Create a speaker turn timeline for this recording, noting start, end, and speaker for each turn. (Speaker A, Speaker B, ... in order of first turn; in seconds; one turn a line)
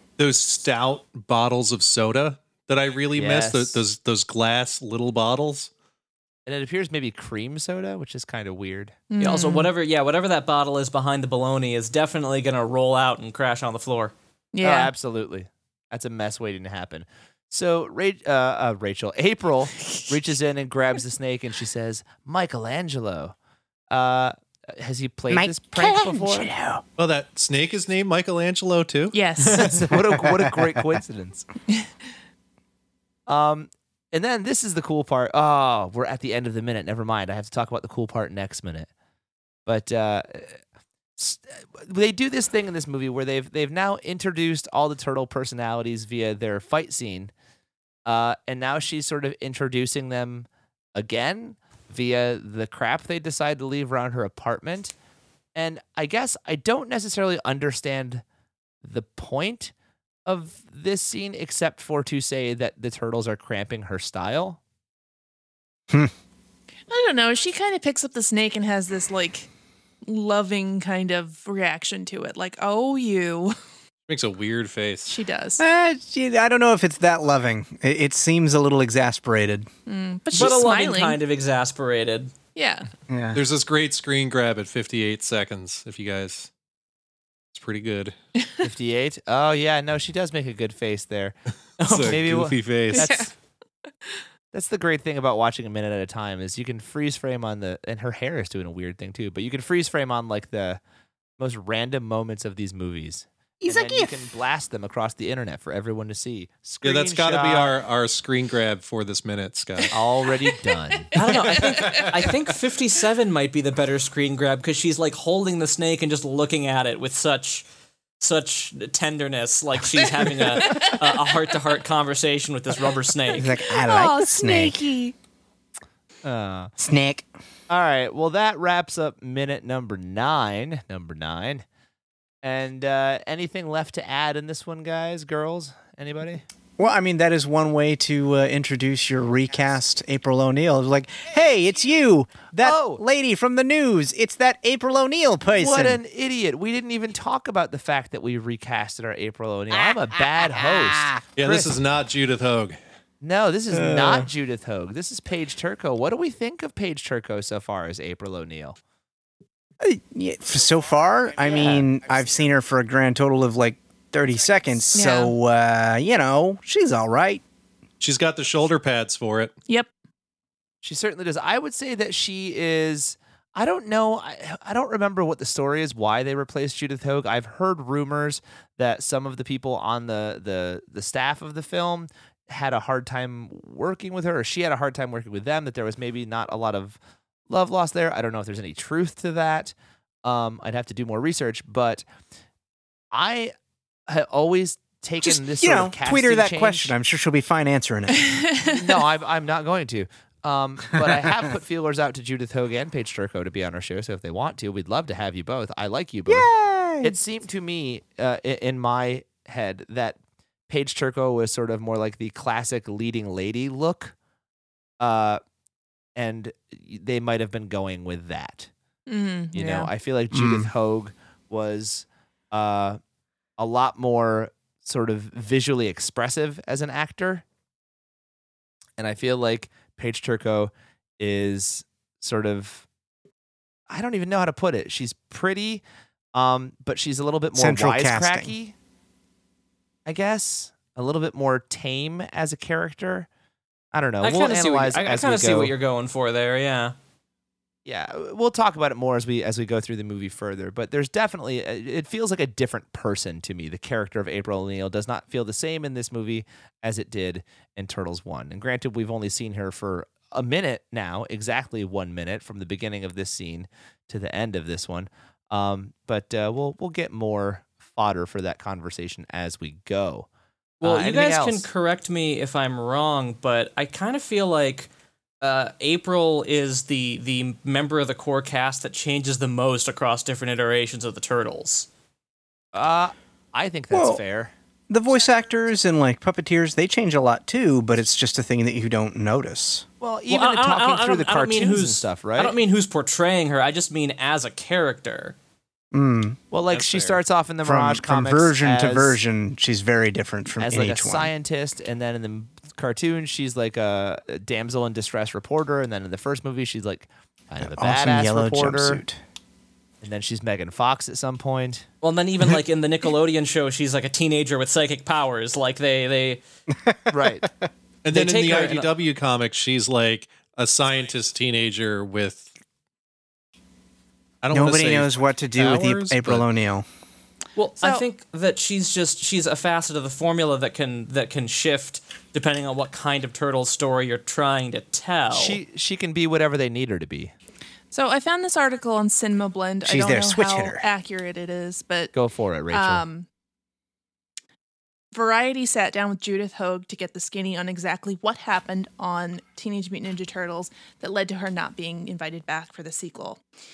Speaker A: 0.2-5.7
Speaker B: 3.1-3.8
Speaker B: 6.5-8.9
Speaker C: 9.1-9.7
Speaker D: 9.2-14.1
Speaker C: 14.5-14.9
Speaker B: 14.6-23.3
Speaker B: 23.9-26.5
Speaker E: 25.3-26.8
Speaker A: 27.0-29.1
Speaker C: 29.1-29.8
Speaker B: 29.6-31.4
Speaker E: 30.2-30.5
Speaker B: 33.3-38.9
Speaker B: 39.6-40.6
Speaker B: 41.2-47.3
Speaker B: 48.0-54.9
Speaker B: 55.5-58.2
Speaker B: 58.8-59.7
Speaker B: 60.2-64.6
Speaker C: 66.9-69.5
Speaker C: 70.0-73.5
Speaker A: 74.1-75.1
Speaker C: 75.1-75.6
Speaker E: 75.6-79.7
Speaker C: 79.9-81.2
Speaker D: 80.3-82.3
Speaker C: 82.5-82.9
Speaker E: 83.1-83.4
Speaker A: 83.3-86.5
Speaker A: 87.5-88.1
Speaker B: 88.6-91.4
Speaker D: 91.8-92.2
Speaker A: 91.8-93.1
Speaker B: 91.9-93.3
Speaker C: 92.9-93.3
Speaker B: 94.5-100.8
Speaker B: 101.4-107.8
Speaker E: 103.6-104.1
Speaker A: 106.8-109.9
Speaker B: 109.9-111.1
Speaker C: 110.9-112.1
Speaker D: 111.1-117.6
Speaker A: 111.5-112.3
Speaker D: 118.2-123.6
Speaker C: 120.2-121.4
Speaker E: 123.3-124.8
Speaker C: 123.3-125.1
Speaker B: 126.2-126.7
Speaker E: 126.8-127.3
Speaker B: 127.7-131.6
Speaker B: 132.4-136.4
Speaker E: 136.8-146.0
Speaker B: 142.6-143.0
Speaker B: 145.5-151.8
Speaker A: 151.4-152.8
Speaker B: 153.2-158.8
Speaker E: 159.8-167.4
Speaker B: 161.5-161.8
Speaker C: 164.9-165.3
Speaker A: 168.0-169.5
Speaker B: 170.8-187.0
Speaker B: 187.5-189.7
Speaker B: 190.2-192.0
Speaker B: 193.1-193.5
Speaker B: 194.1-196.9
Speaker E: 195.2-198.3
Speaker C: 198.2-199.0
Speaker B: 198.6-206.5
Speaker E: 206.3-207.2
Speaker B: 207.0-210.2
Speaker B: 210.7-214.1
Speaker B: 215.0-215.4
Speaker B: 216.1-218.7
Speaker C: 219.1-219.9
Speaker B: 219.5-223.0
Speaker E: 220.3-220.7
Speaker B: 223.6-227.4
Speaker B: 229.0-232.8
Speaker B: 233.9-235.8
Speaker B: 236.3-238.7
Speaker E: 237.5-238.5
Speaker B: 240.1-243.3
Speaker B: 243.9-245.7
Speaker D: 244.2-246.9
Speaker B: 247.8-270.3
Speaker B: 270.8-271.7
Speaker D: 270.8-274.9
Speaker D: 275.4-281.9
Speaker B: 282.7-284.5
Speaker E: 283.9-284.2
Speaker E: 284.9-289.8
Speaker B: 290.0-292.6
Speaker D: 290.3-295.4
Speaker E: 295.9-296.4
Speaker B: 296.5-299.2
Speaker D: 296.7-297.2
Speaker E: 297.6-301.3
Speaker B: 300.6-309.0
Speaker E: 307.6-309.2
Speaker B: 310.0-311.9
Speaker D: 312.0-316.4
Speaker E: 316.8-317.4
Speaker B: 317.1-317.5
Speaker A: 318.0-322.5
Speaker D: 318.1-318.9
Speaker A: 324.4-326.4
Speaker E: 324.5-326.9
Speaker D: 327.6-335.6
Speaker B: 335.3-337.3
Speaker C: 337.9-342.1
Speaker E: 339.8-340.8
Speaker B: 342.1-343.0
Speaker C: 342.7-343.2
Speaker C: 345.1-353.4